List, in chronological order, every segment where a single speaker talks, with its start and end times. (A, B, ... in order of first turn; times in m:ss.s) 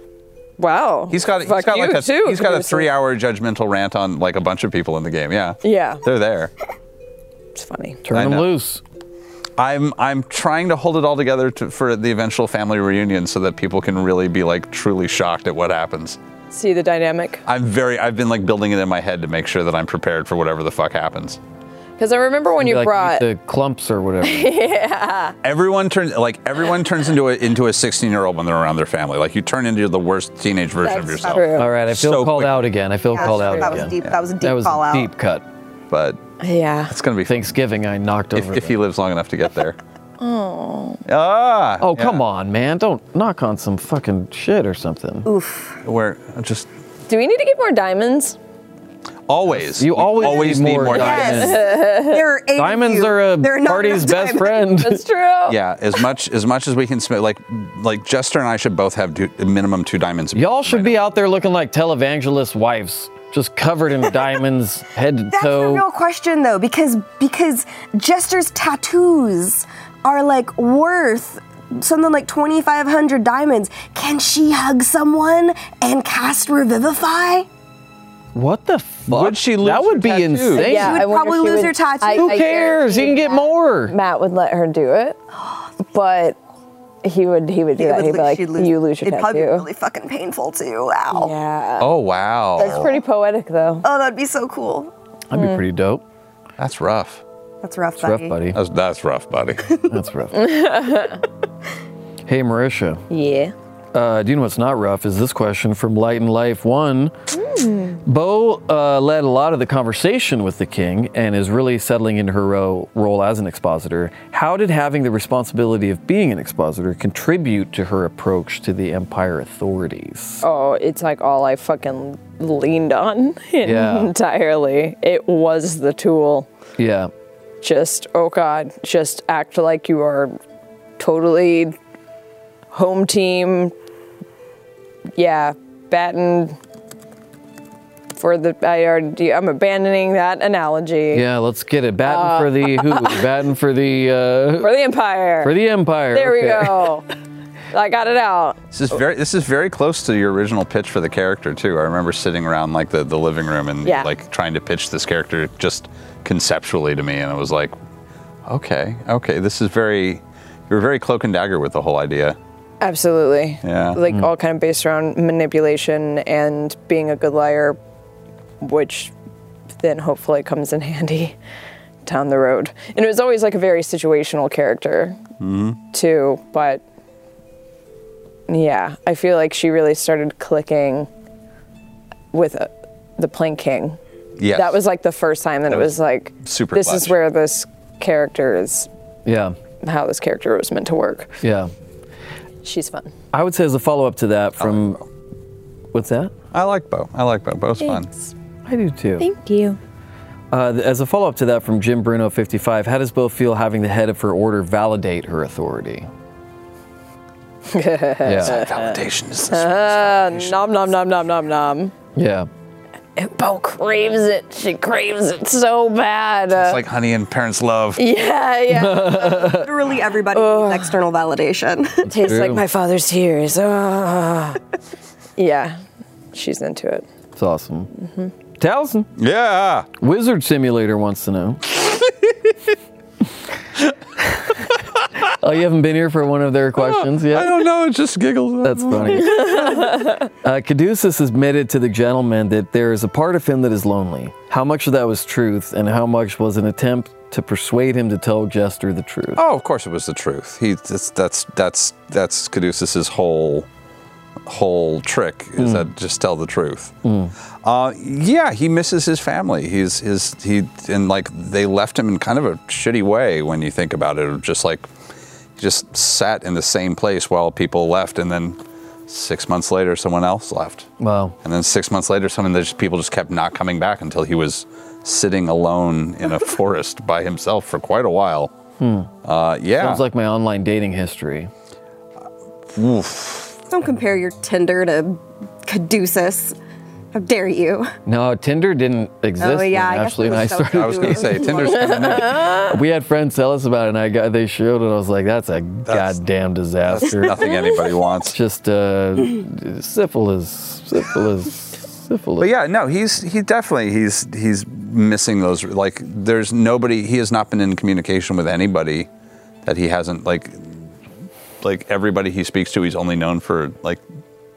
0:00.6-0:02.9 A
0:01.1-0:06.5 B
0:05.6-0:06.0 A
0:07.5-0:08.0 A
0:08.0-0:08.8 C
0:08.1-0:08.5 B
0:09.6-0:16.2 B
0:16.5-0:17.4 A
0:17.4-0:21.4 B
0:22.0-0:23.2 A
0:22.6-0:24.5 C
0:24.2-0:25.4 A
0:25.4-0:32.7 B
0:30.8-0:31.4 D
0:31.2-0:31.7 A
0:31.6-0:35.4 C
0:33.1-0:35.1 D
0:33.2-0:33.9 A
0:35.9-0:36.2 B
0:36.4-0:36.9 A
0:36.9-0:37.5 B
0:37.2-0:38.8 C
0:38.3-0:39.8 B
0:40.2-0:41.0 A
0:41.0-0:42.2 B
0:41.8-0:45.3 C
0:45.2-0:45.8 D
0:45.8-0:46.7 B
0:47.1-0:48.4 A
0:49.3-0:51.5 B
0:49.5-0:51.6 C
0:50.9-0:54.7 D
0:50.9-0:52.2 A
0:52.6-0:55.0 C
0:54.8-0:55.6 A
0:55.4-1:01.0 B
1:00.3-1:05.8 C
1:05.3-1:17.5 D
1:18.3-1:21.0 C
1:19.1-1:20.8 B
1:20.5-1:25.2 A
1:20.7-1:22.4 D
1:22.1-1:23.9 C
1:25.8-1:26.4 A
1:27.0-1:29.6 A
1:27.8-1:31.3 D
1:31.1-1:31.9 A
1:31.8-1:33.0 B
1:32.6-1:33.8 A
1:33.8-1:34.9 D
1:35.3-1:36.0 C
1:36.6-1:37.2 B
1:37.6-1:38.4 D
1:38.0-1:38.6 C
1:38.5-1:39.7 B
1:39.9-1:40.5 C
1:40.3-1:41.2 A
1:42.3-1:43.0 C
1:43.1-1:43.5 A
1:43.9-1:47.1 C
1:47.3-1:48.0 A
1:48.0-2:00.4 C
2:00.4-2:06.5 A
2:03.6-2:04.1 C
2:06.8-2:07.1 C
2:07.6-2:10.4 A
2:11.0-2:11.8 A
2:12.7-2:13.7 A
2:15.1-2:16.6 A
2:18.1-2:21.2 A
2:21.1-2:24.7 C
2:22.0-2:23.2 A
2:24.6-2:25.5 A
2:25.4-2:26.9 C
2:26.1-2:27.0 A
2:27.7-2:28.6 A
2:28.7-2:37.7 B
2:38.4-2:42.4 B
2:42.8-2:47.8 A
2:43.6-2:44.0 B
2:48.6-2:49.1 A
2:49.8-2:51.4 A
2:52.0-2:55.2 A
2:55.4-2:55.8 B
2:55.9-2:56.8 A
2:58.5-3:01.1 A
3:02.3-3:04.0 A
3:04.4-3:04.8 B
3:04.5-3:08.9 A
3:06.4-3:07.2 B
3:09.2-3:09.6 C
3:09.8-3:11.3 A
3:11.4-3:11.7 C
3:12.6-3:13.1 A
3:13.3-3:15.0 C
3:14.6-3:15.0 B
3:15.9-3:16.3 C
3:16.5-3:18.1 B
3:17.8-3:18.3 A
3:18.7-3:19.2 C
3:19.2-3:19.8 A
3:20.5-3:26.1 C
3:27.7-3:29.0 A
3:28.2-3:28.6 C
3:28.4-3:30.7 B
3:29.5-3:31.9 A
3:32.2-3:32.5 C
3:33.2-3:36.8 A
3:36.5-3:38.0 B
3:38.0-3:39.5 A
3:38.7-3:39.7 C
3:39.2-3:42.0 D
3:40.3-3:41.0 A
3:42.0-3:42.6 C
3:42.1-3:44.6 A
3:45.4-3:45.8 A
3:46.3-3:47.0 A
3:47.4-3:47.9 C
3:48.0-3:48.3 A
3:48.6-3:49.1 C
3:49.2-3:49.9 B
3:50.0-3:51.7 C
3:55.4-3:57.5 C
3:56.8-3:59.4 B
3:58.6-3:59.6 C
3:59.2-4:00.3 A
4:00.4-4:09.4 C
4:09.4-4:13.7 B
4:14.4-4:17.0 B
4:15.6-4:15.9 C
4:17.0-4:17.3 C
4:17.6-4:24.9 B
4:25.6-4:30.9 B
4:31.0-4:31.4 C
4:31.4-4:38.5 B
4:38.8-4:39.1 C
4:39.2-4:40.0 B
4:39.8-4:41.5 C
4:42.7-4:43.6 B
4:43.7-4:46.6 D
4:47.1-4:47.9 D
4:48.0-4:57.4 C
4:49.4-4:52.2 D
4:50.2-4:52.6 B
4:51.9-4:52.7 A
4:55.8-4:56.2 B
4:56.8-4:58.4 B
4:58.3-5:02.5 C
5:02.4-5:09.1 B
5:09.6-5:10.8 B
5:11.6-5:14.0 B